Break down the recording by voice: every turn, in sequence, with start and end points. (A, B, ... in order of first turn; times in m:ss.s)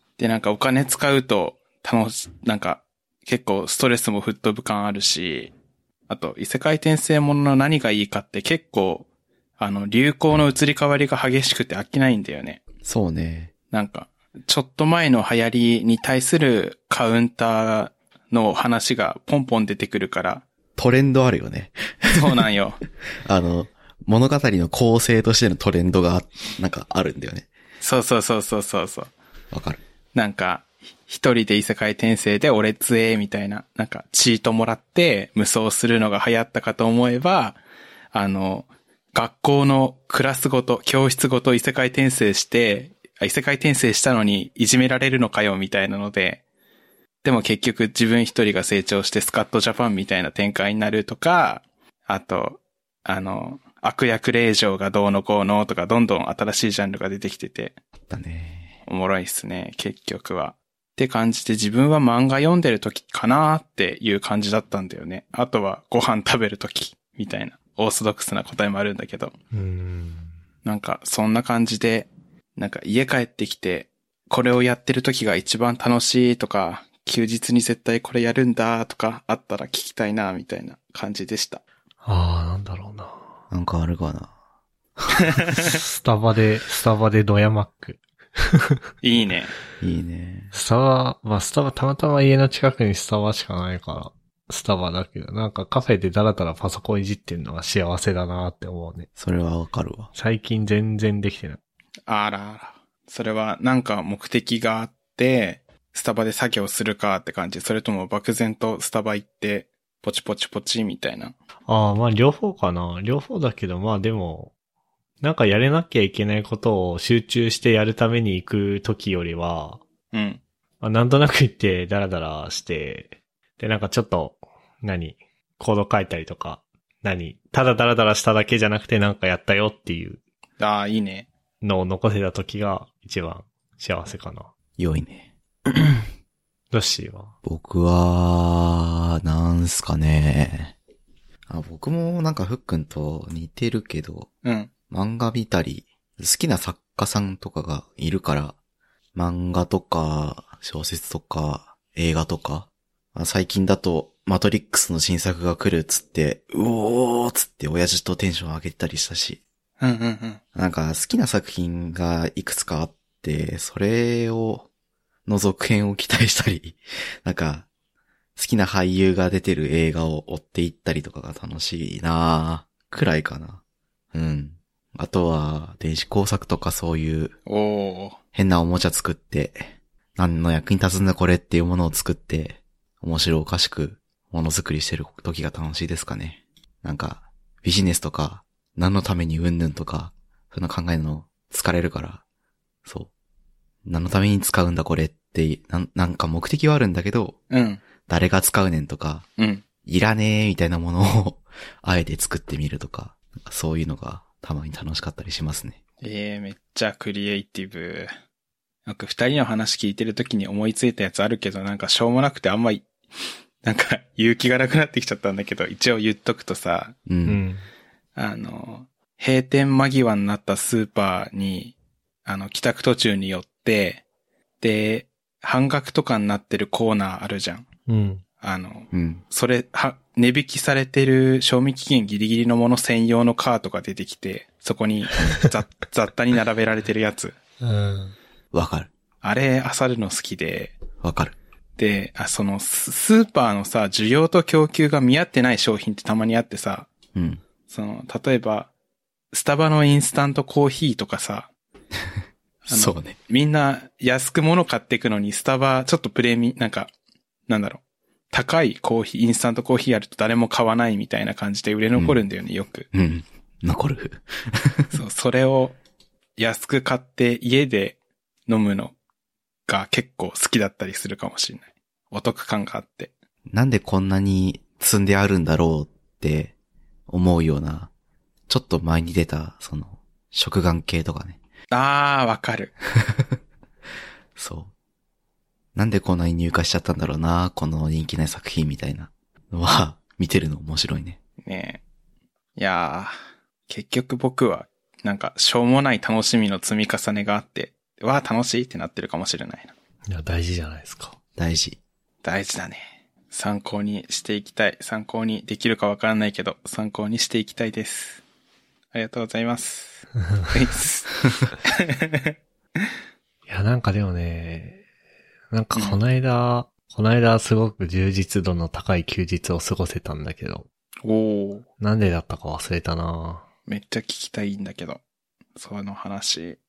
0:00.2-0:05.5 A
0:06.1-0:09.0 A
0:09.6-0:12.6 A
0:12.8-0:13.5 B
0:13.7-0:20.4 A
0:20.8-0:22.4 B
0:22.1-0:22.8 A
0:23.2-0:27.5 B
0:27.8-0:29.1 A
0:29.5-0:29.8 B
0:30.1-0:37.6 A
0:38.1-0:46.4 A
0:47.2-0:57.8 A
0:58.1-0:58.7 B
0:58.9-1:09.3 A
1:09.5-1:10.3 C
1:10.6-1:21.6 A
1:22.0-1:23.2 C
1:23.5-1:24.3 B
1:25.0-1:25.4 B
1:25.3-1:25.7 A
1:25.6-1:28.8 C
1:29.0-1:29.5 A
1:29.8-1:30.5 B
1:30.5-1:39.1 C
1:39.2-1:40.1 B
1:40.1-1:41.6 C
1:42.1-1:51.3 A
1:51.7-1:54.5 C
1:55.2-1:59.8 C
2:00.1-2:00.4 A
2:00.8-2:10.2 C
2:10.6-2:11.3 A
2:11.6-2:14.5 C
2:14.8-2:15.9 B
2:16.7-2:17.3 C
2:17.4-2:20.7 B
2:21.5-2:24.3 B
2:24.4-2:24.7 A
2:24.9-2:28.6 B
2:29.1-2:39.4 B
2:39.8-2:40.4 A
2:40.5-2:44.7 B
2:45.2-2:47.7 B
2:48.4-2:53.6 B
2:54.1-2:57.3 B
2:57.5-2:58.2 A
2:58.3-3:12.2 B
3:13.8-3:17.4 B
3:17.5-3:17.8 A
3:18.0-3:19.2 B
3:19.4-3:19.6 A
3:19.8-3:25.8 B
3:26.0-3:28.1 A
3:28.8-3:32.9 A
3:33.6-3:36.9 A
3:37.0-3:37.4 B
3:37.2-3:37.6 C
3:38.2-3:41.7 A
3:42.2-3:44.0 A
3:44.6-3:47.7 A
3:47.9-3:48.2 C
3:48.4-3:57.4 A
3:48.9-3:49.2 B
3:57.6-3:58.1 C
3:58.5-3:58.9 B
3:59.2-4:00.8 A
4:01.0-4:01.4 B
4:01.8-4:06.9 A
4:07.1-4:07.4 B
4:07.7-4:08.7 A
4:09.3-4:11.5 A
4:12.6-4:16.9 A
4:12.7-4:13.2 B
4:17.5-4:17.8 A
4:18.3-4:22.8 A
4:22.9-4:25.0 B
4:24.9-4:25.8 A
4:26.4-4:28.9 A
4:29.7-4:33.1 A
4:33.5-4:36.5 B
4:37.1-4:37.9 B
4:38.5-4:41.4 B
4:41.7-4:42.7 A
4:42.9-4:43.4 B
4:44.4-4:44.7 B
4:45.7-4:51.2 B
4:51.4-4:51.8 A
4:52.6-4:53.1 A
4:53.7-4:59.7 A
5:00.1-5:01.2 C
5:01.4-5:01.8 B
5:02.2-5:08.2 A
5:08.9-5:12.3 A
5:13.5-5:14.8 C
5:15.5-5:20.7 C
5:21.0-5:21.6 A
5:21.8-5:23.4 C
5:23.7-5:25.0 A
5:25.6-5:26.6 A